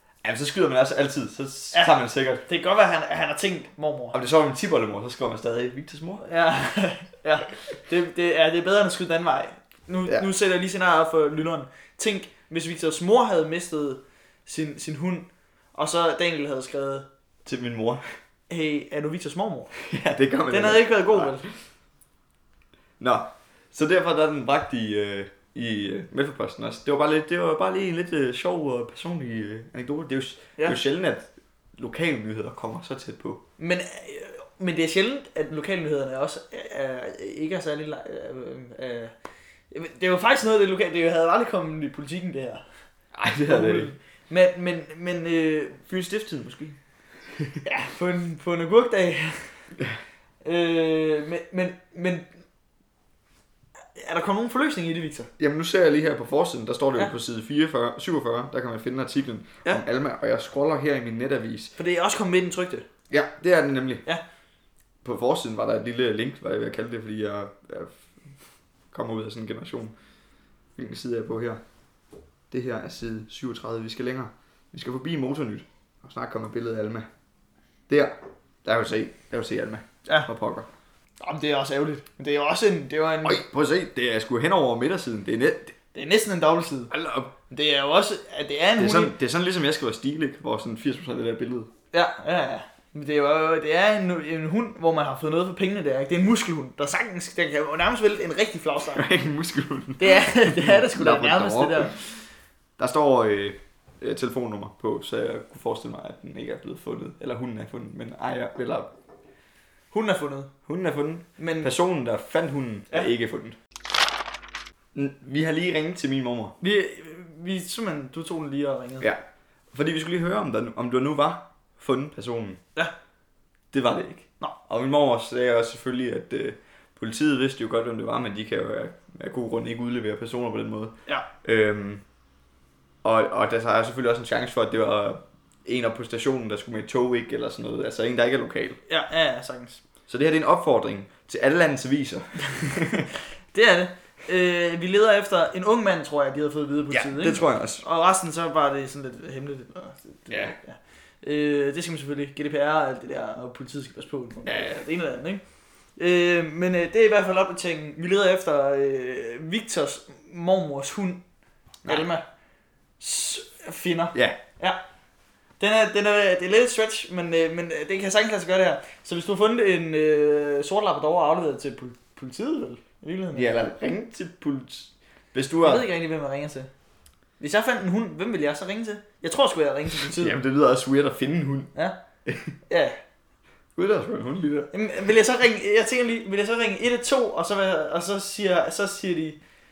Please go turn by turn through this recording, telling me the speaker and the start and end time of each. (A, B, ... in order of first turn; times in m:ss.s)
0:00.2-0:02.4 A
0:02.4-0:04.2 B
0:04.1-0:06.2 A
0:06.2-0:17.1 B
0:17.4-0:18.1 A
0:18.5-0:19.7 B
0:19.8-0:21.5 A
0:20.5-0:21.4 B
0:23.0-0:33.4 A
0:33.6-0:39.1 B
0:39.7-0:42.6 B
0:43.1-0:43.9 A
0:43.4-0:45.8 B
0:45.9-0:46.8 A
0:47.3-0:47.6 A
0:47.6-0:49.6 B
0:50.4-0:52.3 B
0:53.9-0:55.3 B
0:55.4-1:01.7 A
1:01.8-1:02.8 B
1:03.1-1:04.0 A
1:05.0-1:08.1 A
1:08.9-1:09.9 A
1:10.8-1:11.6 A
1:12.5-1:17.1 A
1:17.9-1:20.7 A
1:21.2-1:23.4 B
1:23.2-1:25.7 A
1:25.9-1:26.9 B
1:26.9-1:27.3 A
1:27.5-1:29.1 B
1:28.8-1:31.7 A
1:31.9-1:39.0 B
1:38.9-1:42.0 A
1:40.0-1:42.0 B
1:42.8-1:48.9 A
1:49.9-1:50.5 B
1:50.6-1:53.6 A
1:51.4-1:51.7 B
1:54.9-1:56.6 A
1:56.6-1:59.1 B
1:59.7-2:02.6 A
2:03.7-2:12.0 A
2:13.0-2:18.8 A
2:18.9-2:19.8 B
2:20.1-2:23.1 A
2:23.5-2:35.4 B
2:26.9-2:27.8 A
2:30.3-2:30.6 A
2:34.4-2:34.8 A
2:36.0-2:41.2 B
2:41.8-2:42.2 B
2:43.0-2:44.8 B
2:44.1-2:44.4 A
2:45.6-2:53.6 B
2:53.3-2:55.9 A
2:55.6-2:56.7 B
2:57.4-3:00.4 B
3:00.0-3:01.7 A
3:02.2-3:02.6 A
3:02.7-3:03.0 B
3:03.8-3:04.7 A
3:04.7-3:09.4 B